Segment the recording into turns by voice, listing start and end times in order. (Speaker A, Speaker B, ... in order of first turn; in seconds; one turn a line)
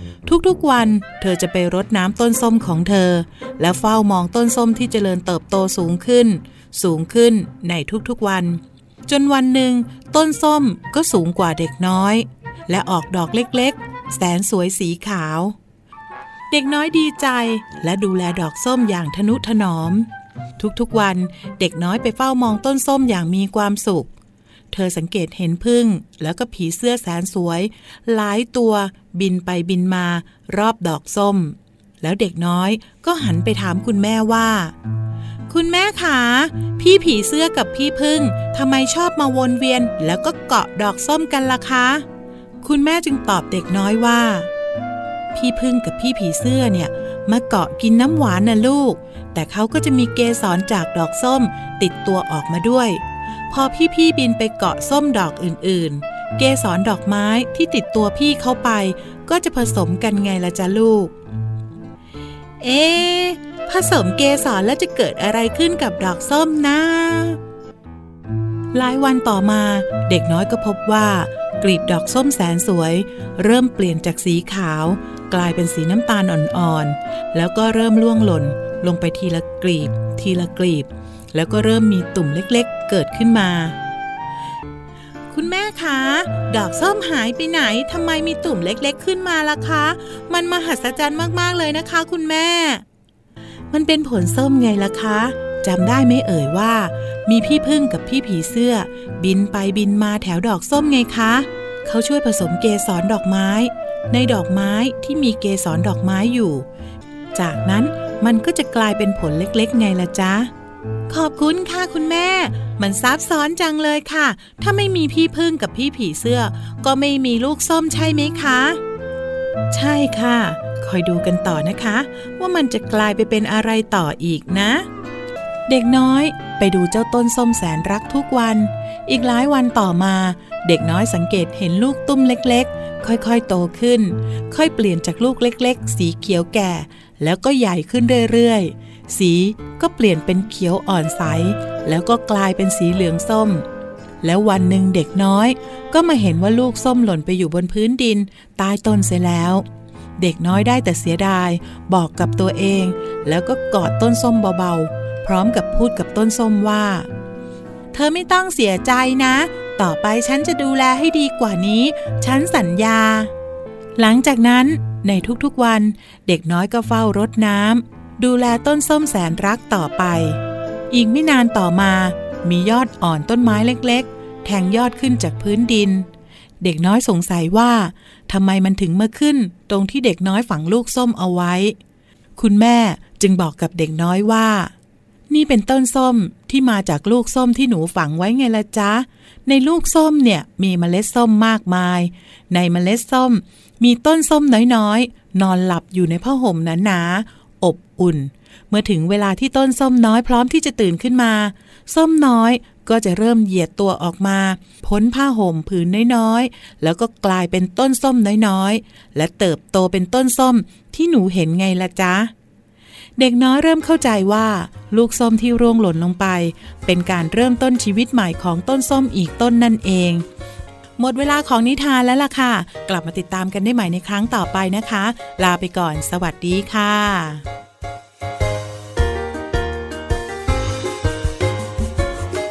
Speaker A: 0.3-15.6
Speaker A: 16.5-24.1
Speaker A: 24.7-34.7
Speaker A: 35.5-42.0
Speaker A: 42.6-44.5
Speaker A: 45.3-61.1
Speaker A: 62.6-67.4
Speaker A: 68.7-83.8
Speaker A: 85.3-92.8
Speaker A: 93.7-106.7
Speaker A: 107.3-110.5
Speaker A: 111.1-118.8
Speaker A: 119.7-124.9
Speaker A: 125.7-143.7
Speaker A: 144.2-149.6
Speaker A: 150.2-157.1
Speaker A: 157.9-163.3
Speaker A: 164.0-170.4
Speaker A: 170.9-176.1
Speaker A: 176.6-181.8
Speaker A: 182.4-184.7
Speaker A: 185.3-212.3
Speaker A: 213.2-220.2
Speaker A: 221.0-227.4